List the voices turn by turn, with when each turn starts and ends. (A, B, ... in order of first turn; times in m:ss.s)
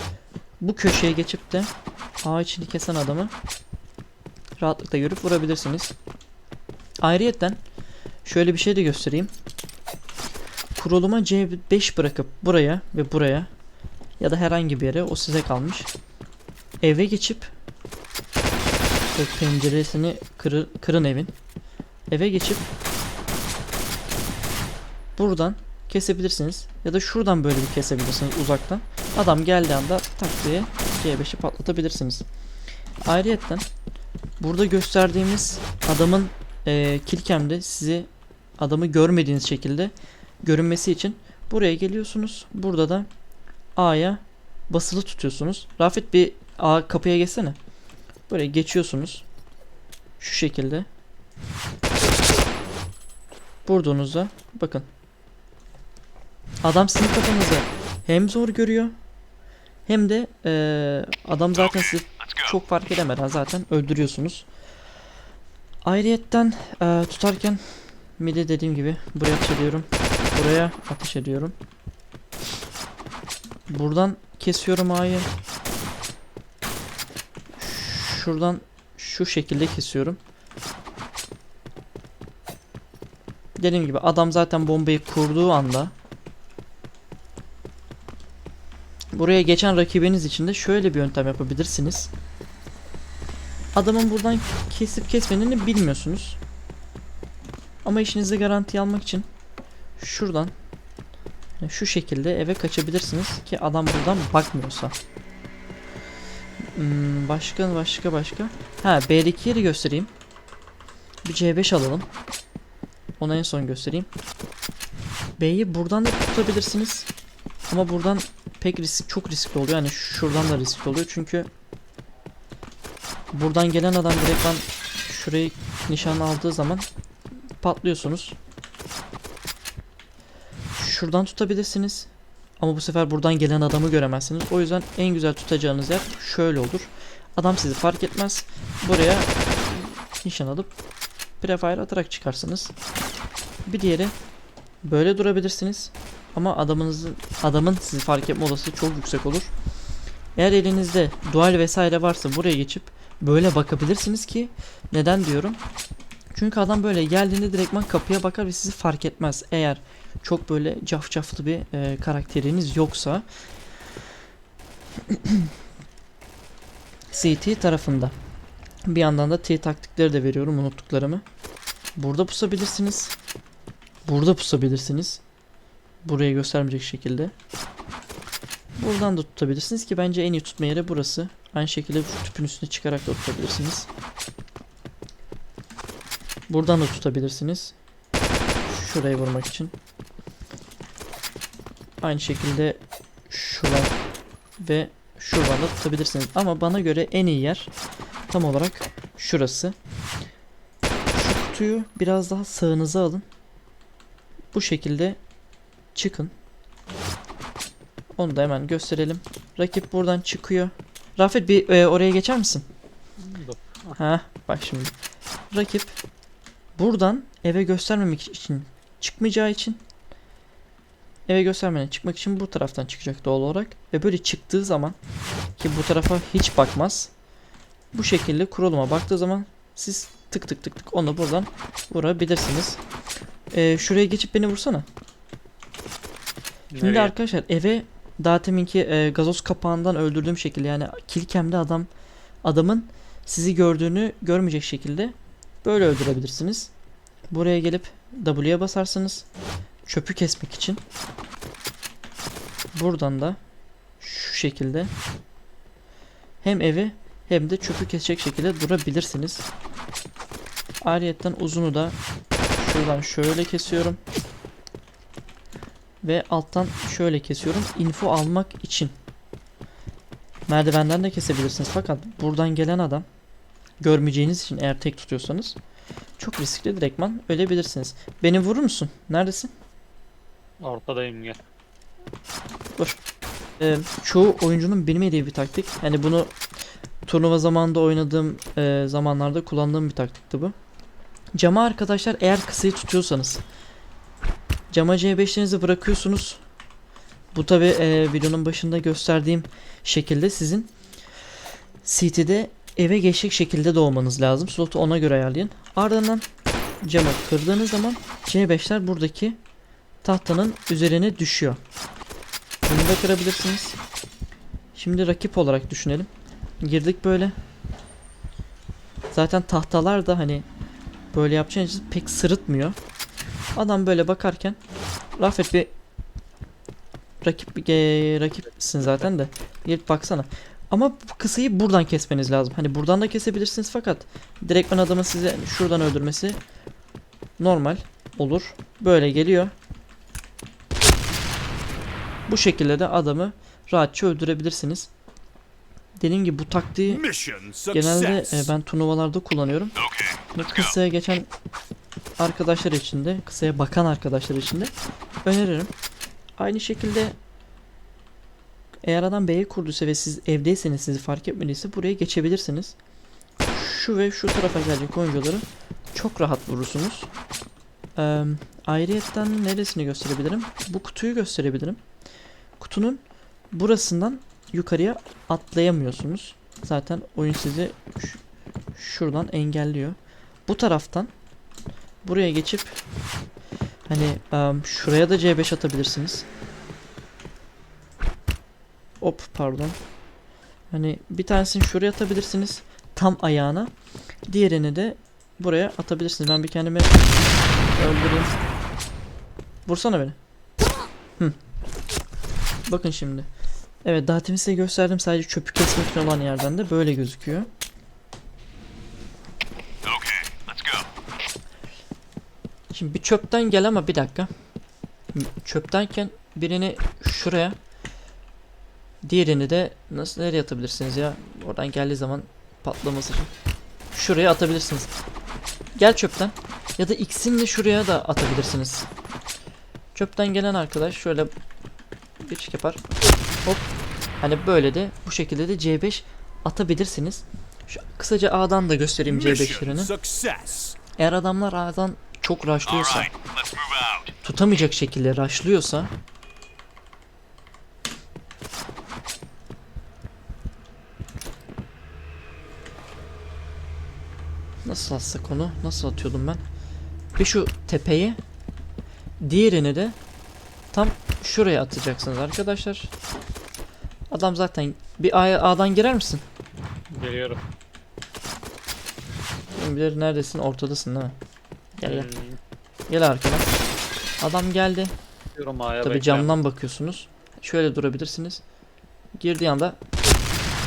0:00.6-0:01.7 A
0:02.2-0:03.3 A
0:04.6-0:05.9 A
0:07.0-0:07.6 A
0:08.2-0:09.3 A
0:10.8-0:13.5 A
0:14.2-0:15.9 A
0:16.8-0:17.5 A
0:19.1-0:21.3 A
0:22.1-0:22.7 A
0:25.2-0:32.2 A
0:33.0-0:33.7 A
0:34.4-0:38.1 A
0:38.6-0:39.9 A
0:40.4-0:43.1 A
0:43.8-0:47.6 A
0:48.3-0:49.2 A
0:50.2-0:50.9 A
0:53.6-0:54.9 A
0:56.6-0:58.9 A
0:59.8-1:04.5 A
1:01.5-1:02.6 B
1:05.8-1:07.6 A
1:08.2-1:11.5 A
1:13.7-1:15.3 A
1:17.6-1:20.2 A
1:23.6-1:25.9 A
1:29.1-1:32.1 A
1:33.7-1:36.4 A
1:37.8-1:39.2 A
1:40.0-1:40.5 A
1:41.6-1:44.9 A
1:46.7-1:50.1 A
1:51.2-1:52.1 A
1:53.2-1:54.1 A
1:55.4-1:57.1 A
1:57.7-2:01.5 A
2:03.3-2:06.8 A
2:07.6-2:08.4 A
2:10.8-2:12.1 A
2:12.6-2:20.7 A
2:21.4-2:22.7 A
2:23.6-2:24.1 A
2:24.8-2:29.5 A
2:30.4-2:35.6 A
2:36.3-2:43.2 A
2:45.1-2:45.5 A
2:47.1-2:48.1 A
2:48.9-2:51.2 A
2:52.0-2:53.1 A
2:54.0-2:55.2 A
2:56.0-2:57.3 A
2:58.8-3:03.9 A
3:06.5-3:07.7 A
3:08.7-3:09.7 A
3:12.0-3:13.9 A
3:14.6-3:17.7 A
3:18.3-3:19.8 A
3:21.1-3:23.2 A
3:24.5-3:25.2 A
3:25.9-3:26.3 A
3:28.2-3:32.6 A
3:33.2-3:34.0 C
3:34.0-3:34.9 A
3:35.5-3:36.0 A
3:36.8-3:39.8 A
3:41.3-3:45.0 A
3:45.6-3:47.1 A
3:47.9-3:52.8 A
3:53.5-3:54.8 A
3:56.7-3:57.1 C
3:56.8-4:01.9 A
4:02.4-4:06.7 A
4:07.3-4:09.2 A
4:09.8-4:10.8 A
4:12.7-4:13.4 A
4:14.0-4:14.9 A
4:16.4-4:19.4 A
4:20.8-4:22.0 A
4:22.6-4:24.0 A
4:26.0-4:28.9 A
4:30.5-4:33.0 A
4:33.8-4:35.6 A
4:36.2-4:39.5 A
4:40.6-4:41.4 C
4:43.6-4:46.3 A
4:47.0-4:50.5 A
4:51.4-4:53.4 A
4:54.7-4:56.4 A
4:57.3-5:00.7 A
5:01.8-5:06.2 A
5:06.8-5:09.4 A
5:10.0-5:11.6 A
5:12.6-5:13.8 A
5:14.7-5:16.1 A
5:16.6-5:17.3 A
5:19.1-5:20.4 A
5:21.1-5:22.8 A
5:23.6-5:24.6 A
5:25.2-5:25.7 A
5:27.2-5:36.4 A
5:37.4-5:39.5 A
5:42.3-5:44.9 A
5:46.0-5:47.0 A
5:46.8-5:48.5 B
5:47.7-5:49.8 A
5:49.8-5:50.7 B
5:50.3-5:51.3 A
5:52.2-5:54.7 A
5:55.2-5:55.7 A
5:56.4-5:57.1 A
5:58.8-6:02.7 A
6:03.5-6:07.1 A
6:08.0-6:11.8 A
6:12.6-6:13.0 A
6:13.5-6:18.2 A
6:18.8-6:21.1 A
6:22.0-6:22.8 A
6:23.9-6:26.2 A
6:29.0-6:29.8 A
6:30.7-6:33.7 A
6:34.3-6:36.9 A
6:37.7-6:38.4 A
6:39.6-6:40.2 A
6:42.6-6:43.3 A
6:43.8-6:47.5 A
6:49.8-6:50.9 B
6:52.7-6:54.3 A
6:55.1-6:57.6 A
6:59.0-7:03.3 A
7:03.9-7:04.9 A
7:05.8-7:08.9 A
7:09.9-7:11.3 A
7:12.2-7:12.8 A
7:14.2-7:19.9 A
7:19.0-7:20.8 B
7:21.0-7:23.1 A
7:22.6-7:24.1 B
7:24.2-7:25.9 A
7:34.6-7:36.4 A
7:37.2-7:38.2 A
7:39.2-7:40.0 A
7:40.7-7:42.9 A
7:44.1-7:46.2 A
7:47.0-7:47.4 C
7:49.6-7:51.2 A
7:51.8-7:52.1 A
7:51.8-7:52.4 C
7:52.9-7:53.6 A
7:54.2-7:54.9 A
7:55.4-7:56.3 C
7:55.8-7:58.4 A
7:59.2-7:59.8 A